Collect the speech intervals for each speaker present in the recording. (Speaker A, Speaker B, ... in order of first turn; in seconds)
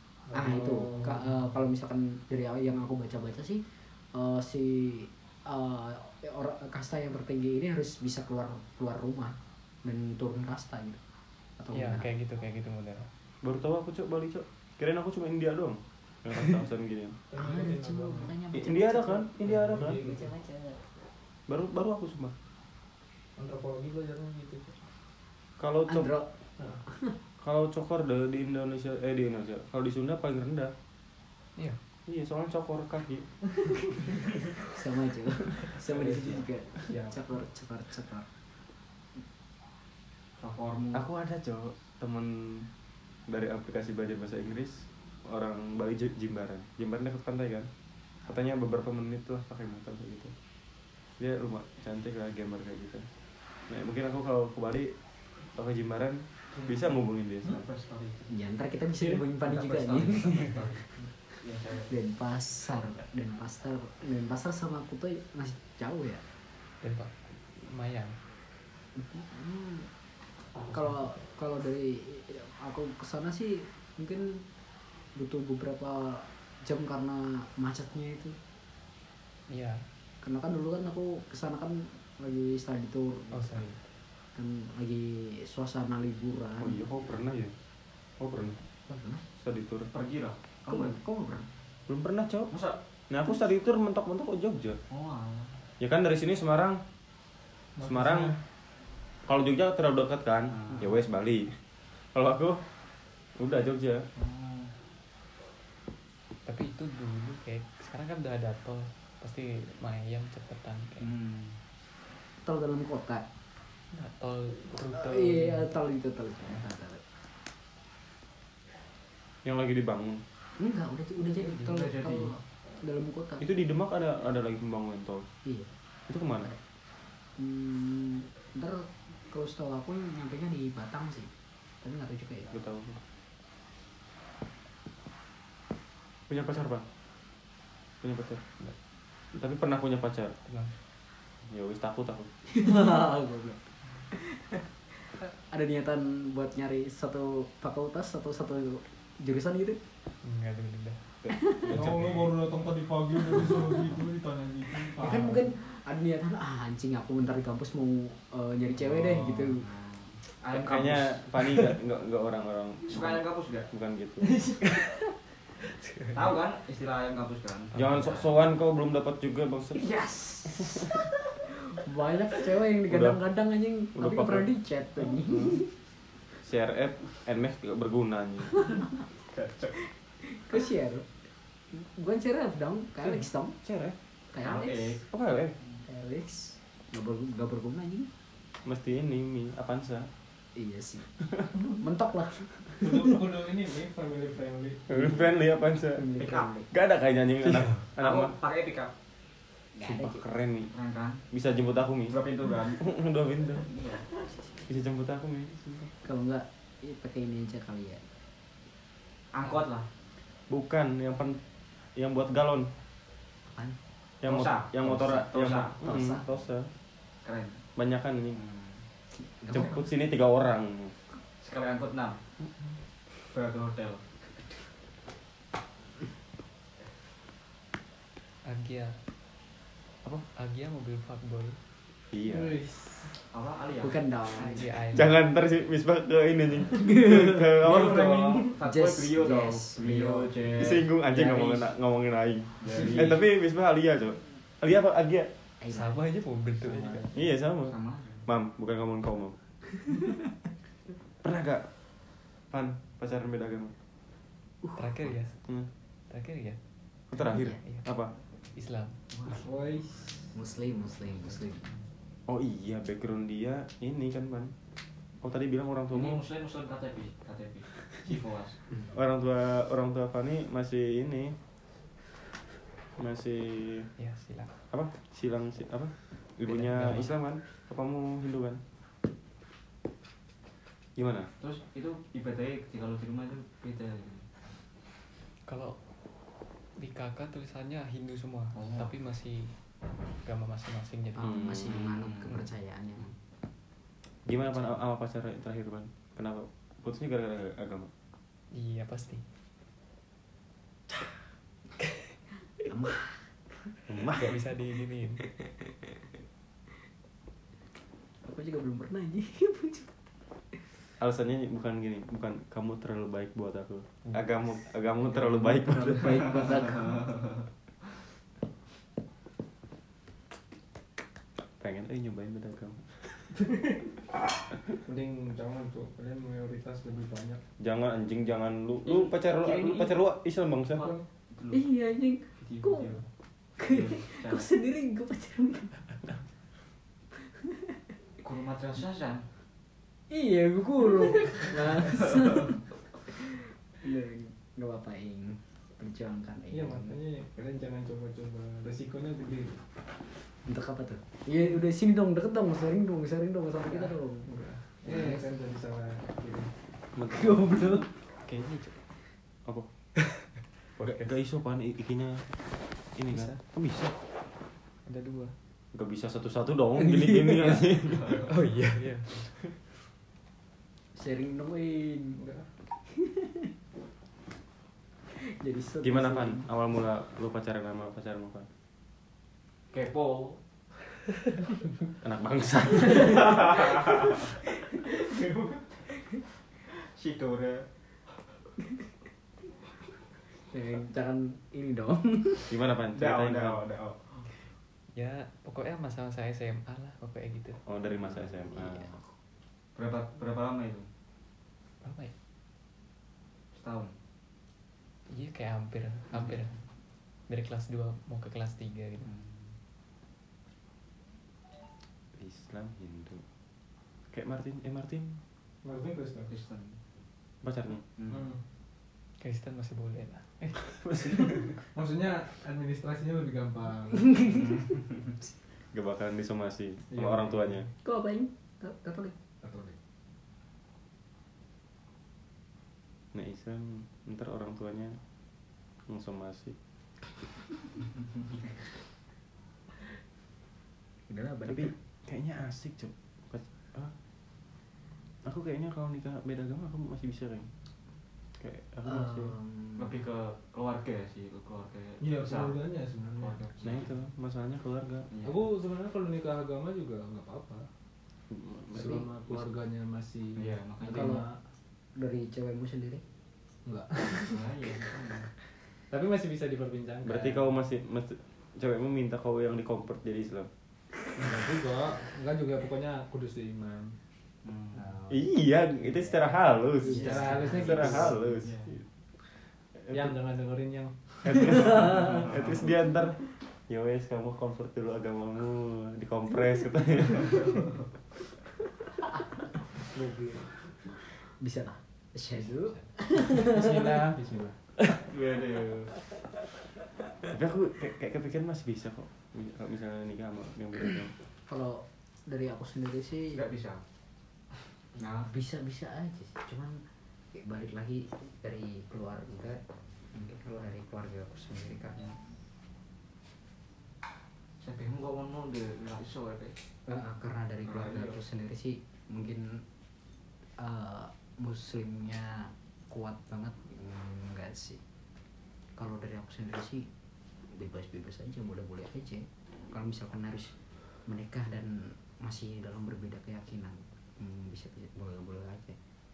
Speaker A: 0.3-1.4, 17.3-18.4, 19.4-20.3, 23.4-24.9, 35.8-36.4, 36.9-37.2, 97.8-98.3, 151.7-155.5, 192.8-195.3, 232.2-233.2, 246.6-247.1, 259.3-260.3, 323.4-324.0, 324.8-327.4, 346.5-349.6, 353.6-356.5, 372.1-372.5, 415.6-416.3, 418.1-418.4, 421.7-424.4, 426.9-427.7, 429.4-429.8, 452.0-453.5, 455.2-457.7, 458.7-461.4, 463.6-464.5, 465.9-467.5, 471.1-474.0, 476.8-478.2, 479.9-482.3, 489.8-490.6, 493.4-494.6
Speaker B: 0.3-11.0, 11.6-12.1, 17.3-19.3, 19.9-20.9, 25.9-26.3, 26.8-27.2, 34.6-38.3, 58.3-60.7, 61.9-66.2, 68.9-69.9, 70.7-74.4, 75.1-78.3, 80.2-83.6, 84.3-86.8, 88.9-89.2, 90.7-91.5, 112.4-113.2, 114.9-117.0, 120.6-123.5, 125.4-125.7, 127.4-132.6, 142.5-149.8, 151.3-151.8, 153.2-153.7, 154.9-159.7, 169.9-175.7, 178.6-178.9, 180.2-181.1, 181.7-183.6, 184.3-185.0, 185.8-188.1, 190.5-191.1, 191.6-193.2, 195.9-196.7, 199.7-200.2, 204.3-204.6, 206.0-208.0, 213.4-213.8, 215.8-216.2, 219.1-219.9, 233.8-234.7, 236.7-237.8, 238.6-241.7, 245.6-245.9, 254.6-255.1, 257.1-257.6, 260.3-261.6, 291.1-293.1, 294.5-294.8, 302.6-303.3, 308.2-310.6, 315.0-317.0, 331.5-333.0, 333.6-335.8, 337.3-337.8, 340.1-347.0, 350.4-354.3, 354.8-355.3, 357.1-357.9, 370.9-372.2, 372.9-373.5, 375.1-376.5, 390.3-392.6, 398.5-399.1, 424.1-424.6, 427.8-429.1, 441.1-441.7, 448.8-449.9, 458.8-459.0, 460.9-461.3, 461.9-463.0, 474.8-475.2, 476.8-478.3, 491.2-494.0, 501.5-503.4, 505.2-506.8, 507.3-509.6, 510.1-512.2, 516.9-519.6, 520.6-524.8, 525.8-526.9, 527.5-535.8
Speaker C: 11.7-13.1, 66.8-68.2, 79.5-79.8, 83.3-83.8, 106.4-111.1, 113.9-115.7, 140.4-140.7, 150.2-151.0, 164.6-164.9, 165.6-166.4, 228.4-229.0, 230.3-231.6, 234.4-235.2, 245.7-247.1, 254.8-255.4, 256.1-256.6, 257.6-257.9, 258.5-259.0, 274.0-274.5, 276.4-277.1, 285.4-285.8, 286.8-289.6, 290.2-291.5, 298.5-299.2, 304.2-305.2, 358.3-358.8, 360.1-361.1, 363.1-363.4, 364.9-365.3, 366.8-367.6, 368.2-369.3, 394.9-397.6, 401.8-402.1, 405.1-406.5, 407.3-409.1, 419.2-421.1
Speaker D: 13.4-17.2, 18.5-20.0, 21.5-22.3, 25.6-26.1, 27.4-30.7, 32.0-33.3, 40.9-42.7, 43.3-47.7, 48.2-50.3, 51.2-53.1, 53.7-54.9, 55.5-57.6, 86.6-87.5, 88.2-88.6, 89.4-89.9, 91.9-92.5, 93.1-94.8, 95.8-96.8, 97.8-98.3, 99.2-101.6, 102.1-102.7, 103.4-104.1, 119.4-120.2, 123.4-125.3, 126.1-126.5, 132.5-133.0, 136.3-136.8, 138.0-138.4, 139.3-140.3, 141.4-142.3, 151.2-152.4, 160.5-164.4, 167.7-169.8, 172.9-173.2, 173.9-175.6, 176.4-178.7, 183.6-183.9, 185.1-185.6, 188.6-190.1, 194.9-196.1, 196.7-198.3, 199.8-200.7, 201.3-202.2, 202.8-203.7, 204.7-205.9, 210.5-211.4, 211.9-212.7, 214.2-216.7, 217.8-218.4, 219.5-220.9, 232.1-232.6, 234.9-238.5, 240.6-245.3, 247.1-249.4, 251.2-251.7, 252.5-253.7, 257.1-258.1, 262.3-264.5, 265.2-266.2, 268.9-271.4, 273.0-273.9, 274.7-278.6, 280.9-281.3, 291.2-292.1, 294.2-297.9, 303.9-304.4, 311.0-316.5, 321.6-323.2, 327.6-330.9, 356.9-357.5, 360.8-362.3, 362.9-363.9, 365.7-368.2, 375.8-378.5, 382.0-383.7, 392.5-393.6, 397.6-399.0, 412.1-413.2, 414.1-415.2, 417.4-417.8, 420.7-421.6, 425.7-427.7, 433.1-435.0, 435.9-436.6, 441.4-443.9, 445.2-447.5, 448.4-449.3, 453.6-455.1, 458.3-459.1, 467.0-470.5, 475.1-478.8, 479.7-480.1, 481.2-487.7, 497.2-501.1
Speaker E: 40.4-41.1, 56.5-56.9, 57.4-58.3, 59.0-60.9, 61.4-61.9, 89.9-91.0, 92.5-92.8, 94.9-95.6, 100.5-101.0, 104.2-104.7, 111.0-111.6, 121.5-122.4, 158.8-161.4, 162.9-163.7, 166.1-168.3, 179.3-179.8, 184.4-185.0, 196.2-196.6, 198.0-198.9, 200.7-201.2, 202.1-202.9, 203.6-204.1, 209.3-209.9, 214.2-215.8, 217.2-217.6, 218.3-218.8, 221.4-222.2, 223.3-224.0, 233.3-234.6, 237.6-240.9, 242.6-243.2, 247.6-248.3, 259.1-259.5, 265.9-268.6, 281.4-284.3, 288.5-288.9, 291.9-292.4, 328.8-330.0, 330.7-331.7, 332.4-333.0, 333.6-334.5, 338.2-339.3, 367.9-368.3, 379.7-380.4, 382.9-384.1, 384.9-385.9, 386.8-387.7, 392.9-394.3, 399.7-400.9, 403.5-403.9, 409.0-409.5, 416.3-416.8, 417.9-418.3, 424.3-425.1, 449.8-452.6, 453.2-453.9, 455.1-455.4, 460.4-461.2, 464.2-465.3, 474.4-474.9, 478.4-478.7, 482.0-482.6, 495.0-495.9, 503.3-503.8, 504.9-505.3, 514.6-516.6, 517.6-518.2